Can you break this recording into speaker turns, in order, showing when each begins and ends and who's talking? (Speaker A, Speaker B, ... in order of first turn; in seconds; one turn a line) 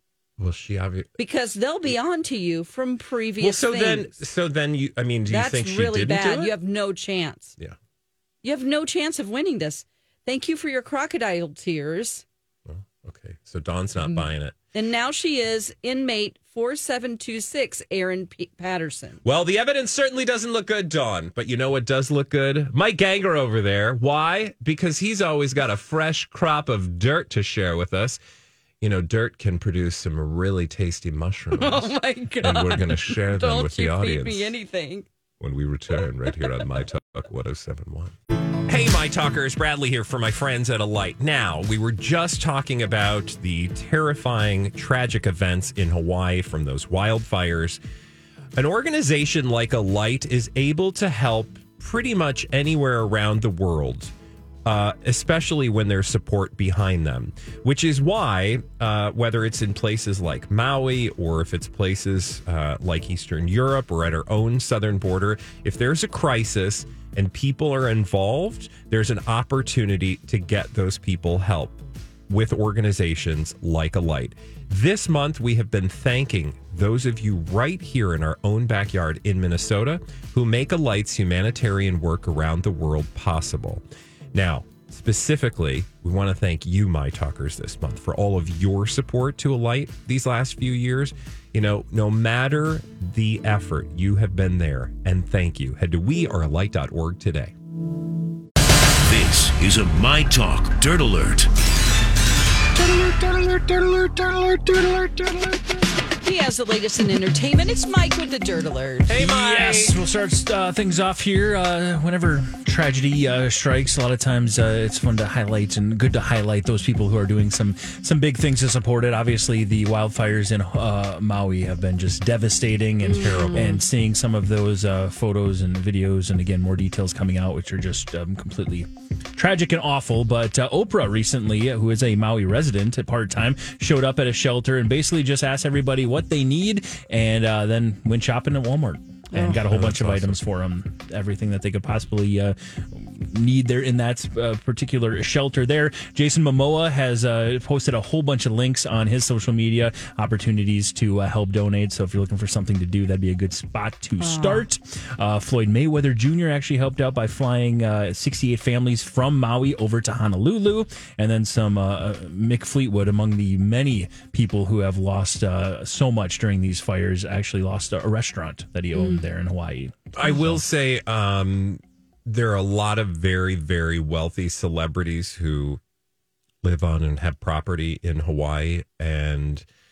Speaker A: 0.4-1.1
Speaker B: 1.2-4.2
Speaker A: 3.4-6.5
Speaker B: 5.3-7.5
Speaker B: 8.4-12.2
Speaker A: 12.7-14.5
Speaker B: 14.0-19.2
Speaker A: 19.2-28.2
Speaker A: 28.8-34.5
Speaker B: 31.6-35.0
Speaker A: 35.4-38.1
Speaker A: 38.6-47.8
Speaker A: 48.5-54.1
Speaker A: 54.6-83.8
Speaker A: 84.3-97.5
Speaker C: 99.0-101.5
Speaker D: 103.0-105.3
Speaker B: 106.2-109.1
Speaker A: 109.1-110.0
Speaker D: 109.1-170.6
Speaker B: 123.0-123.8
Speaker A: 123.1-123.8
Speaker B: 139.3-139.6
Speaker A: 139.6-140.4
Speaker B: 154.2-154.7
Speaker B: 168.9-169.2
Speaker A: 170.1-175.8
Speaker A: 176.6-179.6